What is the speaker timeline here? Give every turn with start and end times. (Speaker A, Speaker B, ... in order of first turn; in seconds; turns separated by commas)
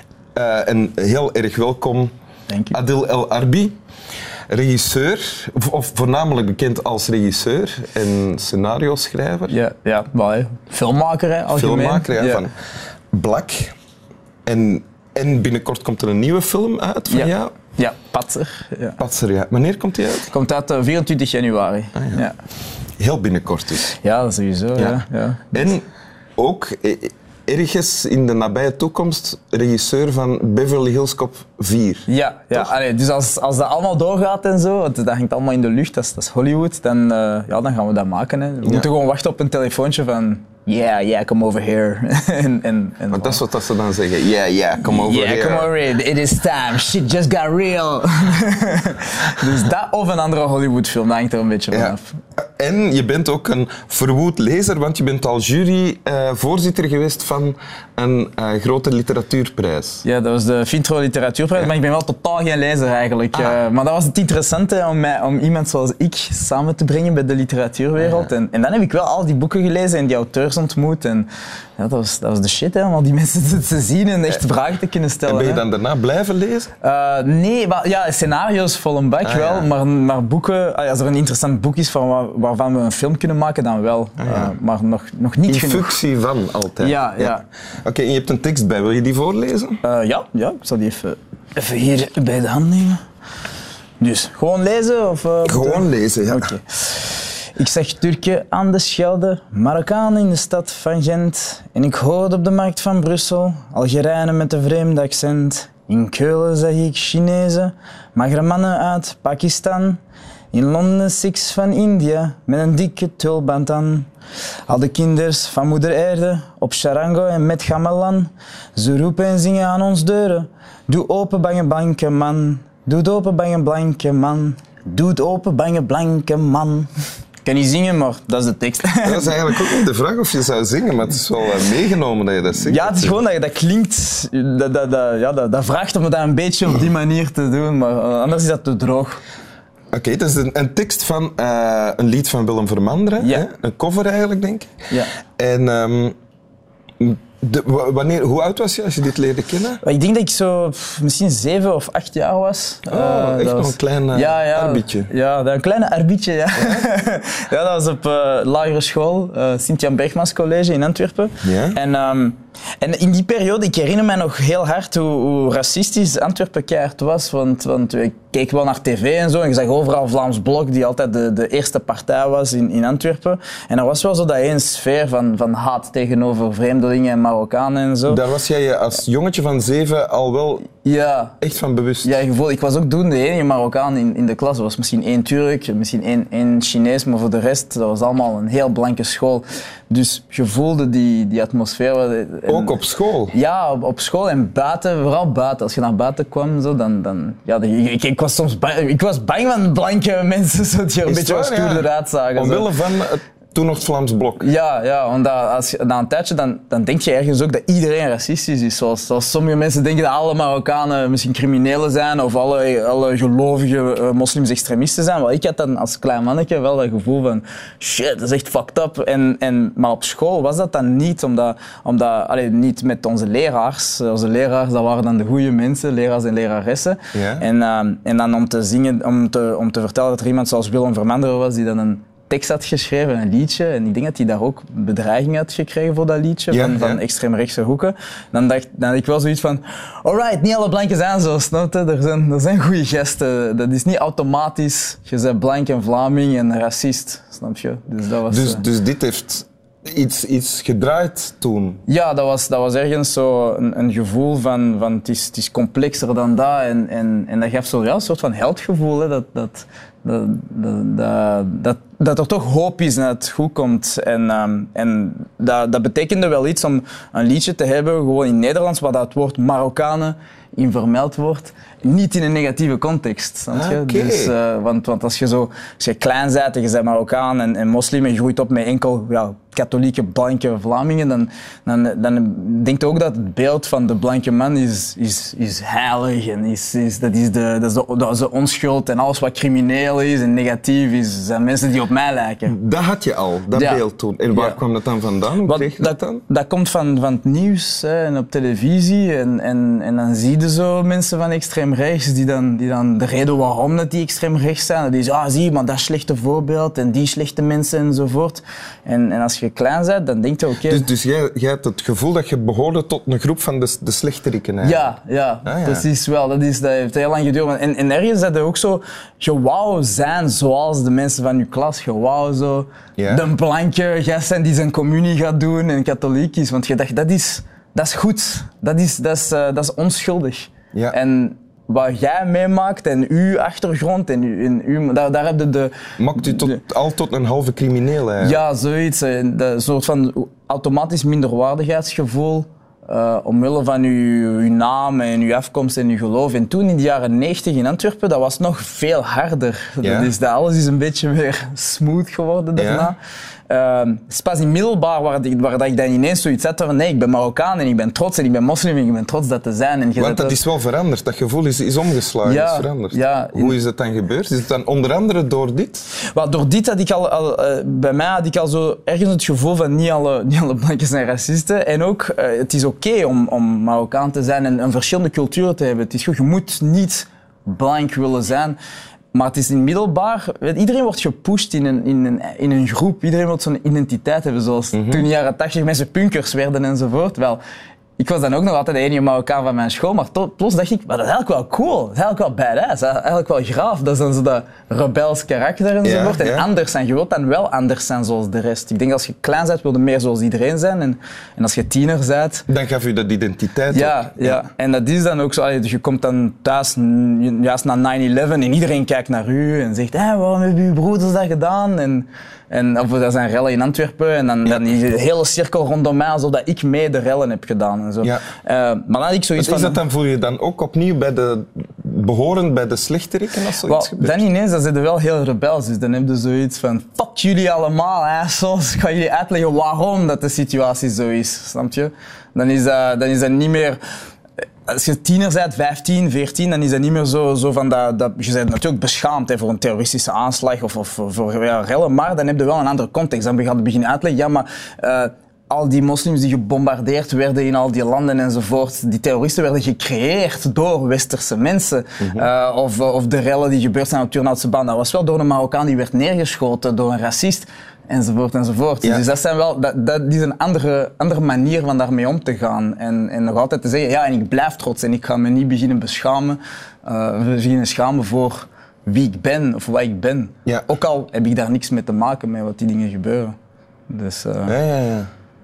Speaker A: 0.3-2.1, Speaker B: 2.5-2.8, Speaker A: 2.7-3.8, Speaker A: 4.5-9.5, Speaker B: 9.5-12.4, Speaker A: 11.6-12.5, Speaker A: 13.1-13.8, Speaker A: 14.5-17.5, Speaker B: 17.1-19.0, Speaker A: 19.0-20.3, Speaker B: 20.3-22.4, Speaker A: 21.9-22.2, Speaker A: 23.0-23.9, Speaker B: 23.9-25.6, Speaker A: 25.5-25.9, Speaker A: 26.4-32.7, Speaker B: 32.1-43.4, Speaker A: 43.1-45.7, Speaker B: 44.8-52.2, Speaker A: 51.7-60.0, Speaker B: 60.0-75.6, Speaker A: 75.3-76.7, Speaker B: 76.8-86.0, Speaker A: 79.2-79.7, Speaker A: 84.2-84.5, Speaker A: 85.5-89.8, Speaker B: 86.8-87.4, Speaker B: 89.8-93.0, Speaker B: 94.0-110.0, Speaker A: 95.4-96.5, Speaker B: 110.5-114.1, Speaker B: 114.7-126.9, Speaker B: 127.5-129.8, Speaker A: 129.0-133.2, Speaker B: 132.6-139.2, Speaker A: 139.9-144.8, Speaker A: 145.4-146.2, Speaker A: 147.0-149.8, Speaker B: 149.8-178.2, Speaker A: 152.9-155.1, Speaker A: 156.6-156.9, Speaker A: 161.4-161.8, Speaker A: 178.1-180.7, Speaker B: 180.8-181.4, Speaker A: 181.4-182.2, Speaker B: 182.0-192.8, Speaker A: 192.5-193.3, Speaker B: 193.3-202.7, Speaker A: 201.1-204.4, Speaker B: 204.4-248.6, Speaker A: 227.1-227.4, Speaker A: 236.5-237.0, Speaker A: 248.3-251.8, Speaker B: 251.9-292.6, Speaker A: 273.5-274.3, Speaker A: 292.5-296.2, Speaker B: 293.5-294.6, Speaker B: 295.4-310.9, Speaker A: 310.7-314.9, Speaker B: 314.6-336.6, Speaker A: 315.5-315.9, Speaker A: 323.0-323.2, Speaker A: 336.0-338.4, Speaker B: 338.2-353.0, Speaker A: 349.8-350.1, Speaker A: 352.6-352.9, Speaker B: 353.5-360.4, Speaker A: 360.0-365.9, Speaker B: 362.2-363.6, Speaker B: 366.1-378.6, Speaker B: 379.1-387.4, Speaker A: 384.7-385.1, Speaker B: 388.0-402.4, Speaker A: 395.8-396.5, Speaker A: 402.5-404.4, Speaker B: 403.7-419.8, Speaker A: 419.4-424.2, Speaker B: 423.6-433.8, Speaker B: 434.7-473.3, Speaker A: 452.0-452.3, Speaker A: 470.4-470.7, Speaker B: 473.9-474.6, Speaker A: 474.5-475.1